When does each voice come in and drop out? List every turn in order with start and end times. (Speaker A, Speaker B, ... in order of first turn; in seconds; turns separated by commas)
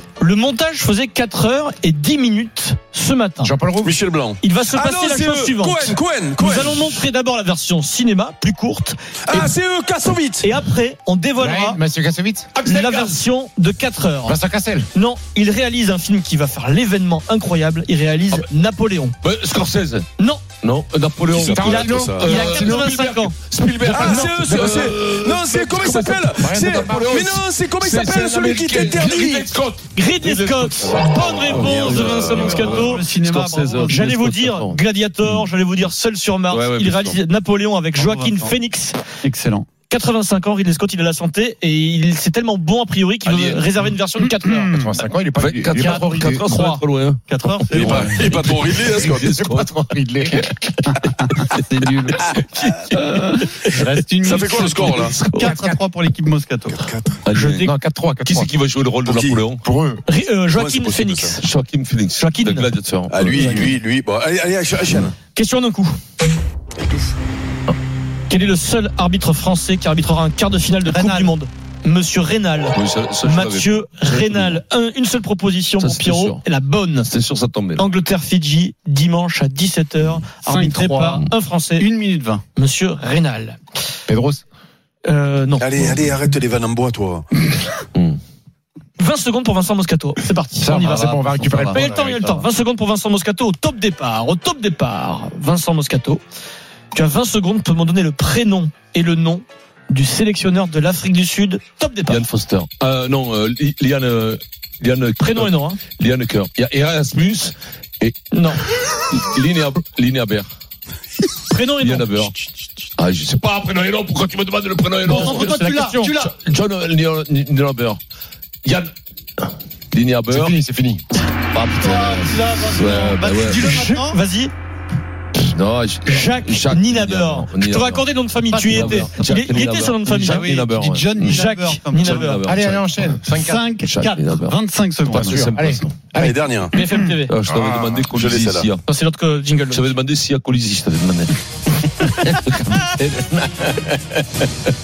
Speaker A: 0.2-3.5, Speaker B: 3.4-3.9, Speaker C: 3.8-7.0, Speaker A: 4.4-9.5, Speaker C: 9.2-10.5, Speaker A: 10.4-11.8, Speaker B: 11.4-12.5, Speaker D: 12.6-13.1, Speaker A: 12.6-14.4, Speaker B: 14.2-14.9, Speaker A: 14.9-19.1, Speaker D: 19.2-20.1, Speaker D: 20.6-25.4, Speaker C: 21.3-22.3, Speaker B: 21.4-22.9, Speaker A: 22.2-24.2, Speaker C: 23.8-29.6, Speaker B: 25.5-27.2, Speaker D: 26.7-35.4, Speaker A: 29.9-33.1, Speaker C: 31.2-32.8, Speaker E: 32.3-34.1, Speaker A: 33.8-39.0, Speaker D: 36.5-37.2, Speaker E: 38.0-38.5, Speaker E: 39.2-39.7, Speaker A: 39.9-44.7, Speaker D: 43.2-43.6, Speaker E: 44.2-44.9, Speaker B: 44.7-46.5, Speaker D: 45.4-47.2, Speaker E: 45.9-48.4, Speaker C: 47.7-49.4, Speaker D: 47.7-49.7, Speaker B: 48.9-50.5, Speaker E: 50.9-52.3, Speaker D: 52.6-53.6, Speaker E: 52.9-56.8, Speaker C: 54.2-55.1, Speaker B: 55.3-55.8, Speaker C: 56.7-57.2, Speaker D: 57.2-57.6, Speaker A: 57.3-57.7, Speaker B: 57.6-58.5, Speaker D: 58.3-59.6, Speaker C: 59.0-59.4, Speaker B: 59.6-60.0, Speaker A: 60.0-61.4, Speaker C: 60.5-61.4, Speaker D: 61.4-63.7, Speaker A: 62.1-62.7, Speaker C: 63.1-65.1, Speaker A: 65.3-66.0, Speaker C: 66.8-67.1, Speaker A: 68.3-77.1, Speaker E: 70.8-71.3, Speaker D: 72.7-74.6, Speaker D: 75.8-76.4, Speaker D: 77.1-77.8, Speaker A: 77.8-81.9, Speaker E: 80.4-81.2, Speaker E: 81.8-82.4, Speaker A: 82.5-83.6, Speaker B: 84.1-84.4, Speaker A: 85.0-85.8, Speaker C: 85.6-87.3, Speaker A: 89.0-91.1, Speaker B: 90.5-91.9, Speaker E: 90.8-92.5, Speaker A: 91.7-96.2, Speaker A: 96.9-102.2, Speaker D: 102.1-108.2, Speaker A: 105.2-105.8, Speaker A: 108.3-108.6, Speaker D: 109.0-110.5, Speaker A: 111.5-112.3, Speaker D: 111.8-112.4, Speaker D: 113.0-115.6, Speaker A: 115.0-116.2, Speaker E: 115.1-116.3, Speaker D: 116.1-118.0, Speaker D: 118.6-120.5, Speaker B: 120.3-121.0, Speaker D: 121.5-123.8, Speaker E: 121.5-124.2, Speaker A: 123.5-124.5, Speaker D: 125.3-128.1, Speaker A: 126.0-130.5, Speaker E: 128.5-129.1, Speaker D: 128.7-131.4, Speaker E: 130.1-132.4, Speaker A: 131.2-132.4, Speaker D: 131.9-135.9, Speaker B: 132.4-133.6, Speaker E: 133.3-135.5, Speaker B: 135.1-136.4, Speaker C: 136.2-136.7, Speaker A: 136.7-137.3, Speaker E: 136.8-137.1, Speaker D: 137.3-138.8, Speaker B: 137.5-138.1, Speaker C: 138.1-138.7, Speaker A: 138.8-139.9, Speaker D: 139.7-141.4, Speaker D: 141.9-144.2